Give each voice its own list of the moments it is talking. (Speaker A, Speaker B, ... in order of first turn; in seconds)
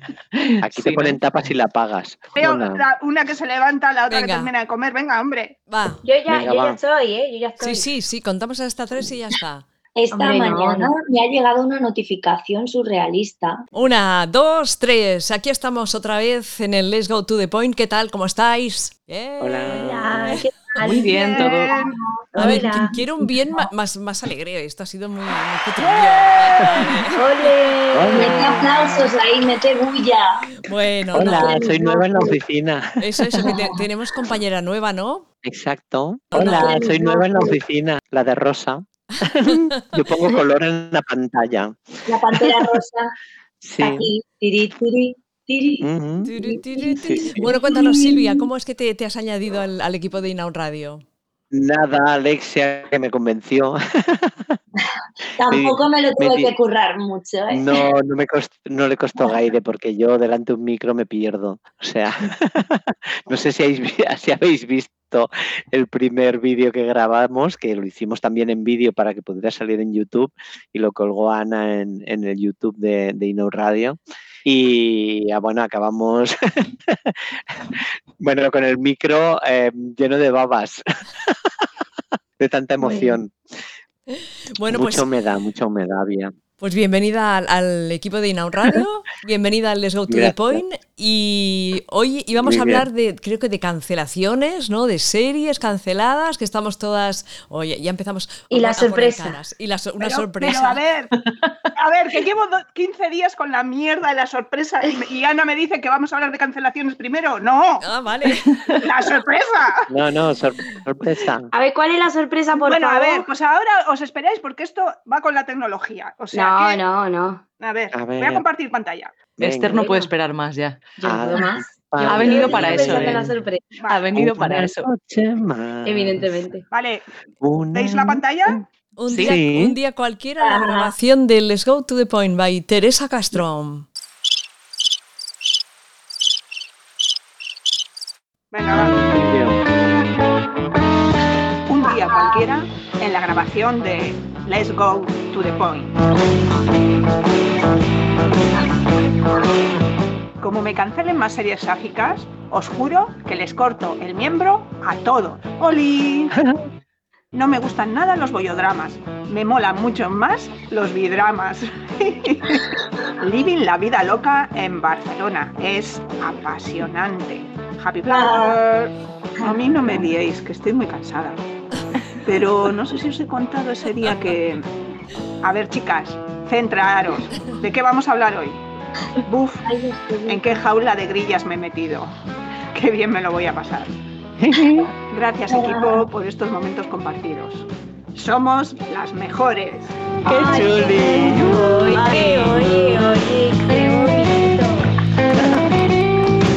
Speaker A: 0.3-1.2, 20.8-21.8, 101.2-101.5, 119.4-121.0, 122.0-123.3, 123.9-124.9, 129.1-129.4
Speaker B: 0.6-2.8, 6.3-6.8, 19.4-20.4, 27.9-28.4, 31.1-33.5, 35.4-41.8, 42.3-42.7, 43.6-44.1, 45.8-46.3, 47.0-47.5, 51.5-54.6, 55.5-56.5, 57.5-77.2, 77.7-81.5, 82.4-83.3, 84.7-86.3, 90.1-90.6, 92.4-92.9, 109.9-111.5, 117.9-118.5, 119.4-119.7, 121.0-123.2, 124.2-126.2, 127.4-128.6, 129.2-129.8, 138.7-139.6, 184.4-184.9, 190.3-191.8
Speaker C: 2.4-5.6, 21.4-21.7, 25.8-26.5, 100.0-101.1, 101.8-107.9, 108.8-109.9, 112.6-116.8, 117.6-119.1, 123.8-124.2, 126.7-127.1, 127.7-128.6, 138.5-139.1, 141.7-145.9, 150.4-156.4, 157.3-162.7, 163.2-171.4, 172.2-174.7, 175.4-178.6, 179.2-179.7, 180.2-182.1, 182.7-183.9, 185.1-189.9
Speaker D: 4.1-4.5, 5.7-6.0, 7.6-9.6, 13.7-20.4, 22.4-27.2, 28.2-29.0, 30.6-31.6, 33.0-35.3, 36.3-36.8, 46.2-51.0, 84.1-85.1, 86.6-100.8, 107.8-108.5, 129.0-133.8
Speaker E: 6.0-7.9, 10.1-10.9, 19.8-21.8, 22.4-23.0, 26.6-28.8, 82.8-83.2, 98.5-99.4, 111.5-113.3, 116.3-117.5, 119.7-120.1, 121.0-123.8, 125.8-126.7, 190.2-194.9
Speaker F: 9.9-13.6, 28.1-30.4, 31.1-32.4, 33.4-33.8, 36.3-37.5, 42.1-43.1, 43.8-45.9, 46.4-48.5, 55.4-57.8, 141.8-142.4, 168.1-168.6, 169.4-170.1, 179.6-180.5, 185.5-186.1